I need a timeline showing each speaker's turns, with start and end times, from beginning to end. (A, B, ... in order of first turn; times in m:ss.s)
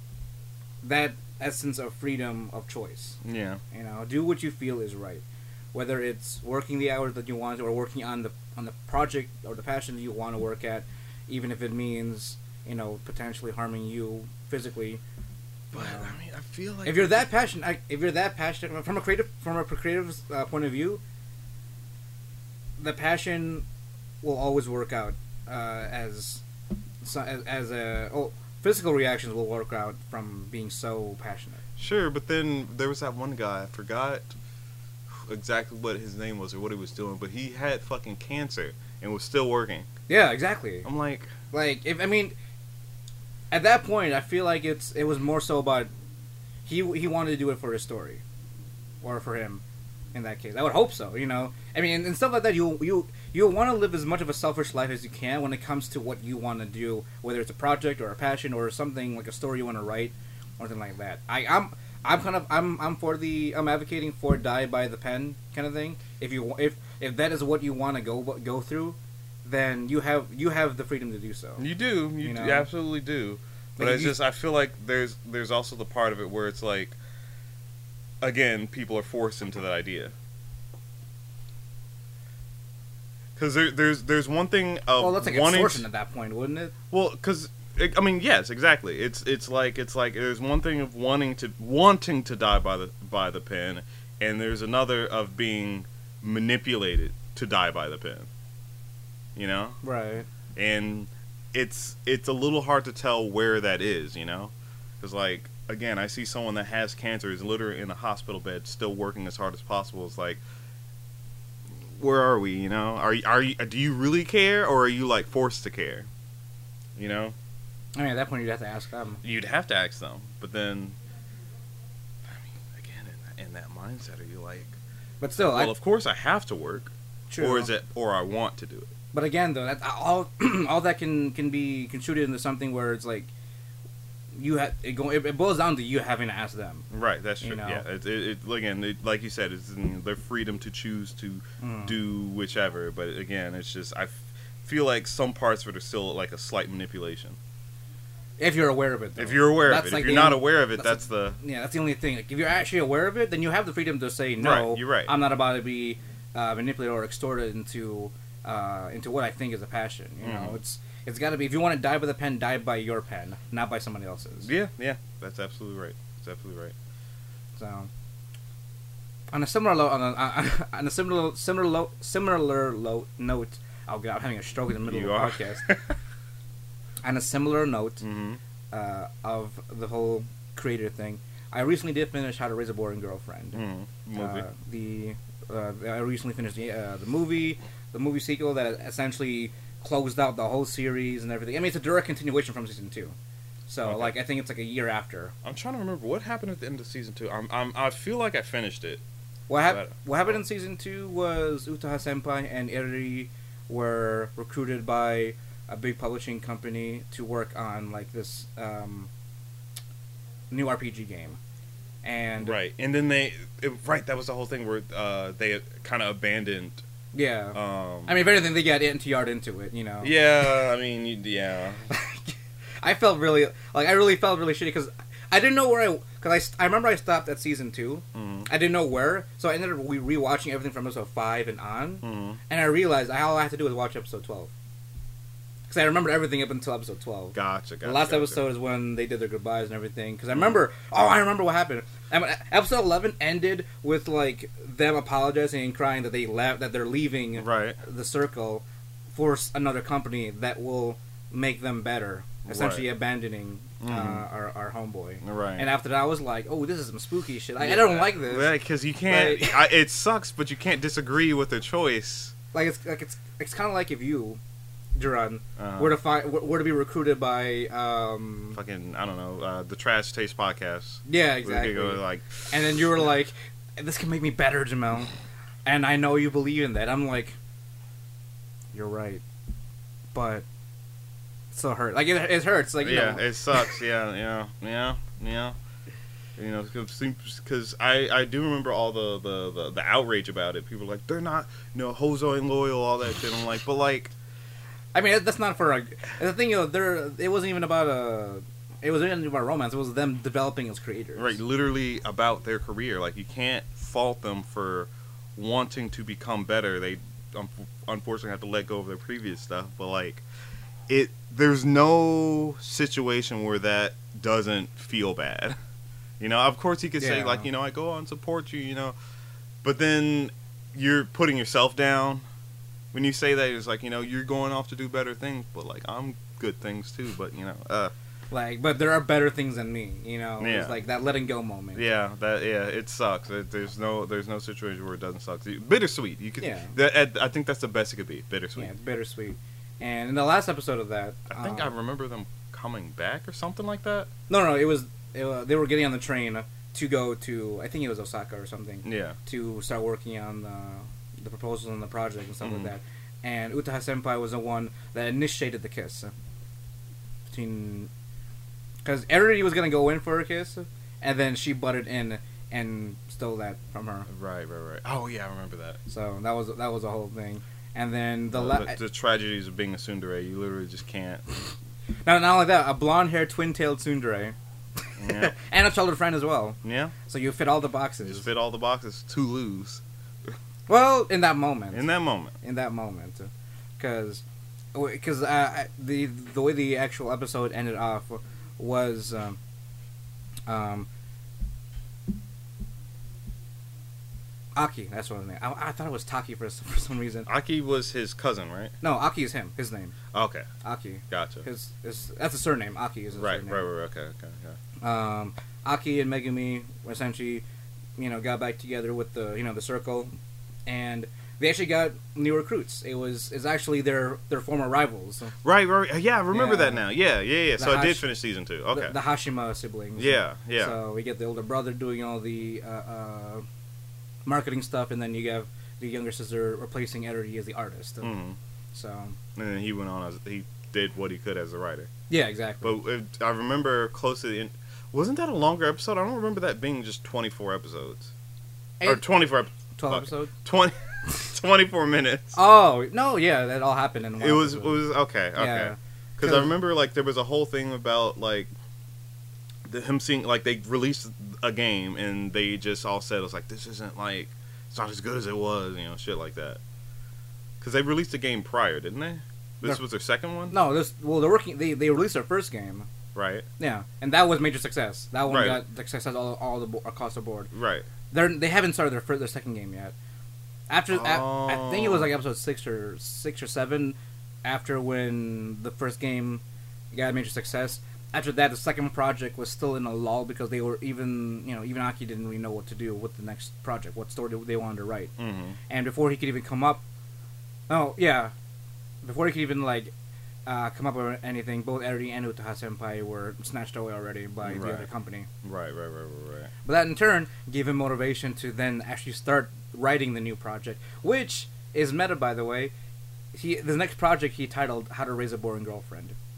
0:00.8-0:03.2 A
0:03.2-0:03.6 B
0:03.7-0:15.0 A
0:15.7-0:17.3 B
0:15.7-0:16.1 A
0:16.8-0:21.0 A
0:22.8-0:23.6 A
0:24.2-0:26.4 A
0:27.0-0:31.6 A
0:31.8-0:34.3 B
0:35.1-0:39.9 B
0:40.1-0:40.9 A
0:40.8-0:41.3 B
0:41.5-0:42.3 A
0:43.5-0:45.9 A
0:46.6-0:48.2 A
0:49.0-0:49.6 A
0:50.1-1:11.6 A
1:11.6-1:17.0 B
1:12.2-1:12.7 A
1:13.8-1:14.2 A
1:18.2-1:20.1 B
1:23.4-1:25.9 B
1:25.0-1:26.7 A
1:26.9-1:38.3 B
1:39.3-1:39.8 B
1:39.8-1:40.3 A
1:40.6-1:50.4 B
1:51.8-1:56.1 B
1:57.0-1:57.3 B
1:58.0-1:59.2 A
1:59.2-2:01.0 B
2:02.2-2:04.7 B
2:05.2-2:05.7 A
2:05.3-2:08.9 B
2:07.3-2:07.7 A
2:09.1-2:13.3 A
2:14.3-2:16.9 A
2:16.9-2:27.4 B
2:17.4-2:17.8 A
2:21.6-2:21.9 A
2:28.4-2:44.5 A
2:29.2-2:31.4 B
2:34.4-2:35.1 B
2:40.2-2:40.6 B
2:44.4-2:46.7 B
2:47.6-2:47.9 A
2:49.3-2:55.7 A
2:54.8-2:55.9 B
2:57.0-2:58.0 A
2:58.0-2:58.4 B
2:58.7-3:03.6 A
3:03.5-3:04.4 B
3:04.2-3:13.1 A
3:13.7-3:15.3 A
3:13.8-3:14.2 B
3:15.4-3:19.0 B
3:19.5-3:29.1 A
3:19.7-3:20.3 B
3:30.5-3:31.4 A
3:32.0-3:32.6 A
3:32.4-3:36.8 B
3:37.1-3:40.6 A
3:37.5-3:38.2 B
3:40.0-3:41.9 B
3:41.9-3:54.5 A
3:48.1-3:48.5 B
3:52.0-3:52.4 B
3:55.7-4:18.5 A
3:57.3-3:58.4 B
4:07.4-4:07.8 B
4:12.4-4:12.9 B
4:13.8-4:14.2 B
4:15.2-4:15.7 B
4:17.6-4:22.3 B
4:19.1-4:19.7 A
4:22.5-4:24.4 A
4:24.9-4:28.6 A
4:25.6-4:26.0 B
4:28.5-4:32.8 B
4:31.0-4:35.1 A
4:35.6-4:37.4 A
4:38.7-4:39.2 A
4:40.1-4:40.4 A
4:41.5-4:43.3 A
4:42.8-4:45.5 B
4:46.4-4:54.1 B
4:54.9-5:01.4 A
5:01.2-5:10.2 B
5:10.9-5:15.6 B
5:16.2-5:18.9 B
5:17.0-5:17.5 A
5:19.6-5:22.2 B
5:22.9-5:27.9 B
5:28.3-5:31.8 A
5:30.4-5:30.8 B
5:31.8-5:38.7 B
5:36.4-5:36.7 A
5:38.6-5:41.7 A
5:41.3-5:44.1 B
5:44.3-5:56.1 A
5:48.8-5:49.2 B
5:52.4-5:52.7 B
5:57.3-5:57.9 A
5:58.8-6:04.1 A
6:04.1-6:05.8 B
6:05.9-6:08.8 A
6:08.3-6:11.2 B
6:12.0-6:14.3 A
6:15.0-6:18.2 A
6:15.0-6:15.3 B
6:16.6-6:16.9 B
6:18.0-6:20.3 B
6:20.7-6:21.9 A
6:21.7-6:22.3 B
6:22.4-6:24.2 A
6:24.7-6:29.4 A
6:30.5-6:30.9 A
6:34.6-6:37.3 A
6:37.3-6:38.7 B
6:38.8-6:39.9 A
6:40.1-6:40.5 B
6:40.6-6:43.6 A
6:41.1-6:41.4 B
6:43.2-6:44.6 B
6:44.8-6:47.4 A
6:48.0-6:50.1 A
6:50.7-6:55.3 A
6:55.4-6:58.9 B
6:56.3-6:56.8 A
6:57.6-6:58.1 A
6:58.7-7:03.4 A
7:00.0-7:00.8 B
7:04.2-7:08.1 A
7:08.0-7:08.4 B
7:08.7-7:09.2 A
7:09.4-7:11.9 B
7:12.1-7:12.8 A
7:12.6-7:18.1 B
7:18.8-7:19.0 A
7:18.8-7:22.4 B
7:19.8-7:20.3 A
7:22.3-7:24.8 A
7:24.2-7:28.5 B
7:25.4-7:26.5 A
7:29.6-7:36.6 B
7:37.6-7:40.5 B
7:40.5-7:42.9 A
7:43.1-7:43.4 B
7:43.6-7:47.5 A
7:45.3-7:45.6 B
7:47.5-7:47.9 B
7:48.1-7:49.9 A
7:50.7-8:05.1 A
7:50.9-7:52.1 B
8:05.2-8:05.6 B
8:05.7-8:06.8 A
8:07.7-8:08.3 A
8:09.0-8:09.9 A
8:10.4-8:15.3 A
8:14.4-8:14.9 B
8:15.4-8:16.5 B
8:16.6-8:22.7 A
8:23.3-8:26.2 A